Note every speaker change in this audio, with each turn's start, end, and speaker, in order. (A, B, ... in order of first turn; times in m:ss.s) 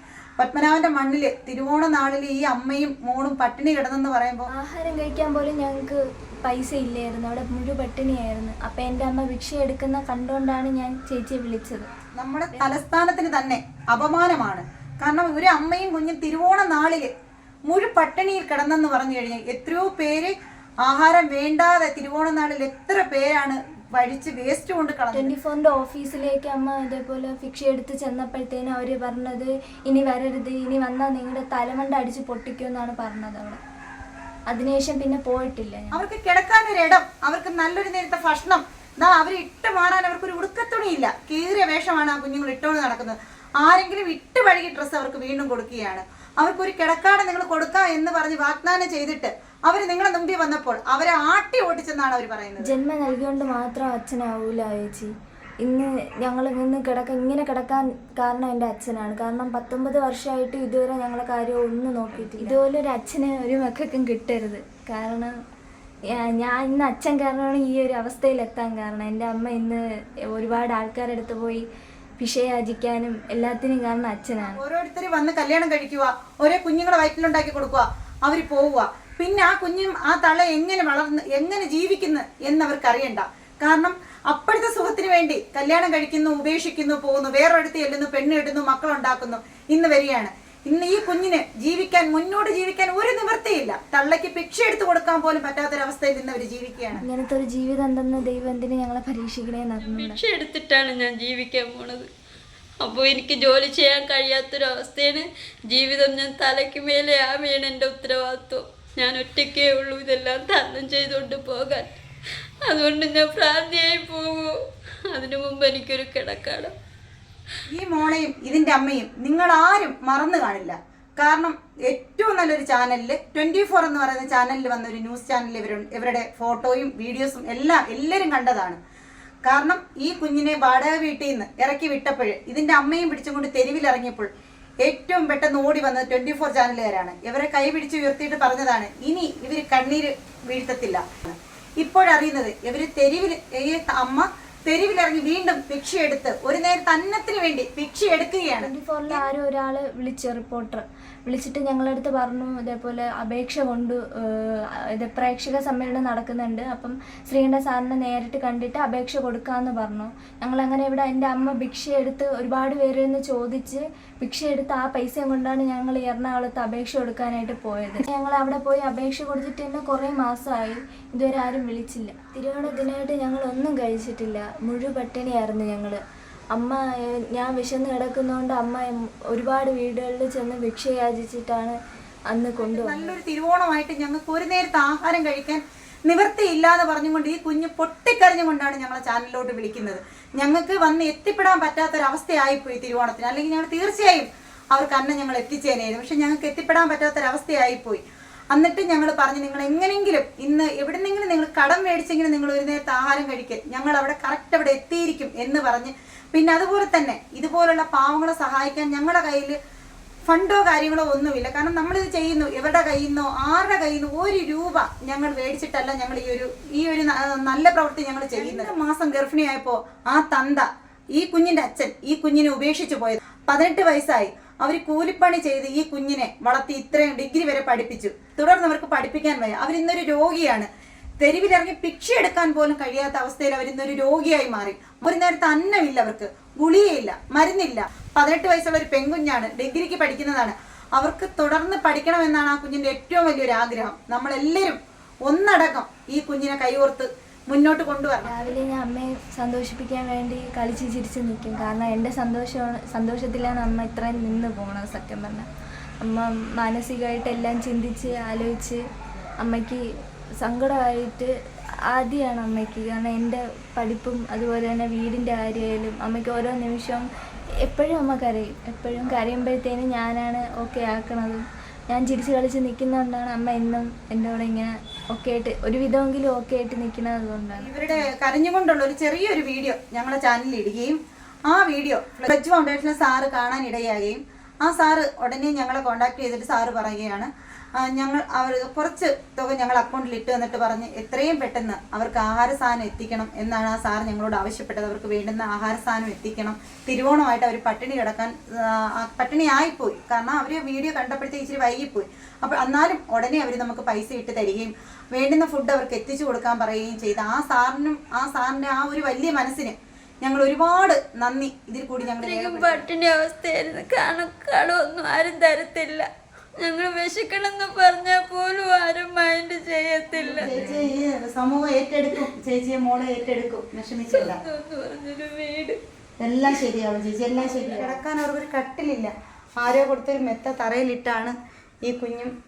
0:00.4-0:04.5 A
0:04.5-0:11.9 B
0:12.2-0:17.1 A
0:17.7-0:20.3 A
0:20.8-0:25.3 A
0:25.1-0:33.6 B
0:34.5-0:36.0 B
0:35.9-0:52.7 A
0:52.6-0:55.1 B
0:55.6-1:05.3 B
1:06.1-1:09.8 B
1:10.3-1:11.6 B
1:12.2-1:14.6 B
1:14.4-1:37.0 A
1:37.0-1:40.2 B
1:39.8-1:42.1 C
1:42.8-1:52.0 C
1:52.6-1:54.6 C
1:55.1-1:56.8 C
1:57.7-2:08.8 A
2:09.4-2:14.3 A
2:14.8-2:29.2 A
2:28.6-2:56.0 B
2:56.5-3:01.8 B
3:02.3-3:03.2 B
3:02.6-3:18.0 A
3:18.5-3:29.6 A
3:30.3-3:50.7 A
3:51.2-4:08.5 A
4:08.2-4:15.4 B
4:16.0-4:18.8 B
4:19.4-4:19.8 B
4:20.4-4:21.3 B
4:21.9-4:27.0 B
4:27.6-4:38.1 B
4:37.6-5:12.8 A
5:12.2-5:16.1 C
5:16.6-5:20.5 C
5:20.4-5:24.4 A
5:24.1-5:25.8 C
5:26.2-5:32.3 A
5:27.5-5:27.8 C